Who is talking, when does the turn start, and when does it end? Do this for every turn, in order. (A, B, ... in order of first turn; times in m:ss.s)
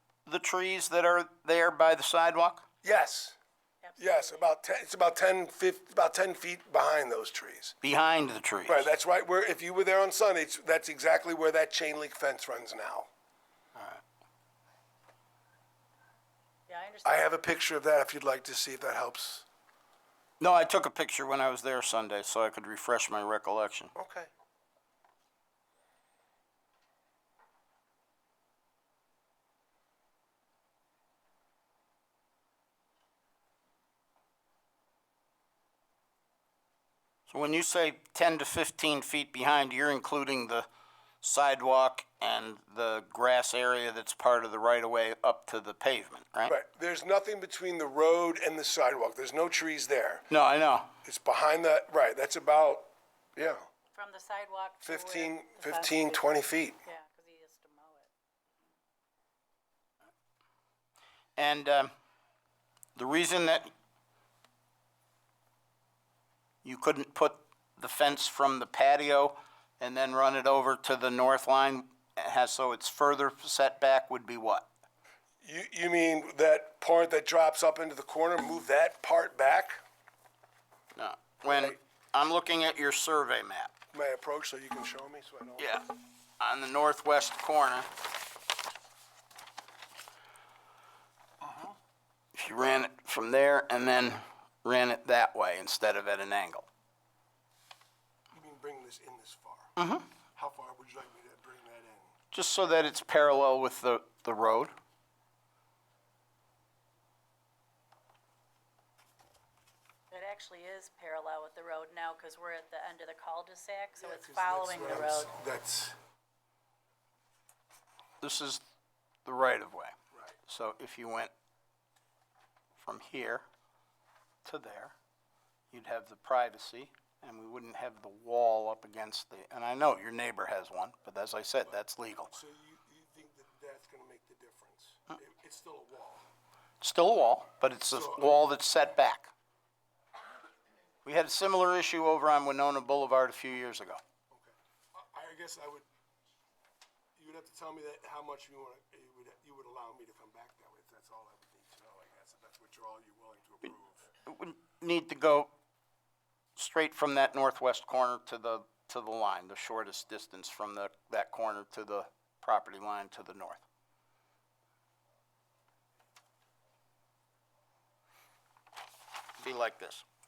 0:00.2-0:02.6 A
0:02.8-0:03.4 B
0:03.8-0:04.5 C
0:04.0-0:07.8 B
0:07.8-0:08.9 A
0:08.6-0:13.1 B
0:13.8-0:14.0 A
0:16.7-0:17.3 C
0:17.0-0:19.5 B
0:20.4-0:23.9 A
0:23.9-0:24.3 B
0:37.3-0:40.7 A
0:41.2-0:46.5 A
0:46.4-0:50.3 B
0:50.3-0:50.9 A
0:51.0-0:53.6 B
0:53.9-0:58.1 C
0:54.8-0:56.8 B
1:01.4-1:01.9 A
1:03.0-1:03.7 A
1:06.6-1:14.7 A
1:15.4-1:19.8 B
1:21.0-1:23.7 A
1:21.5-1:21.8 B
1:23.9-1:25.8 B
1:25.6-1:25.9 A
1:26.4-1:27.9 A
1:31.4-1:31.7 B
1:32.3-1:36.7 A
1:38.3-1:39.8 B
1:39.8-1:40.0 A
1:40.3-1:42.1 B
1:42.3-1:44.7 A
1:50.1-1:55.3 C
1:54.0-1:56.0 B
1:58.2-1:58.6 A
1:59.2-1:59.9 A
2:00.1-2:00.4 B
2:00.5-2:01.3 A
2:02.8-2:03.4 A
2:04.4-2:04.9 A
2:05.7-2:12.3 A
2:12.3-2:16.2 B
2:16.8-2:19.3 A
2:17.9-2:18.4 B
2:21.0-2:24.0 A
2:24.3-2:25.9 B
2:27.2-2:34.1 B
2:34.2-2:35.5 A
2:36.6-2:43.6 A
2:49.4-2:50.0 A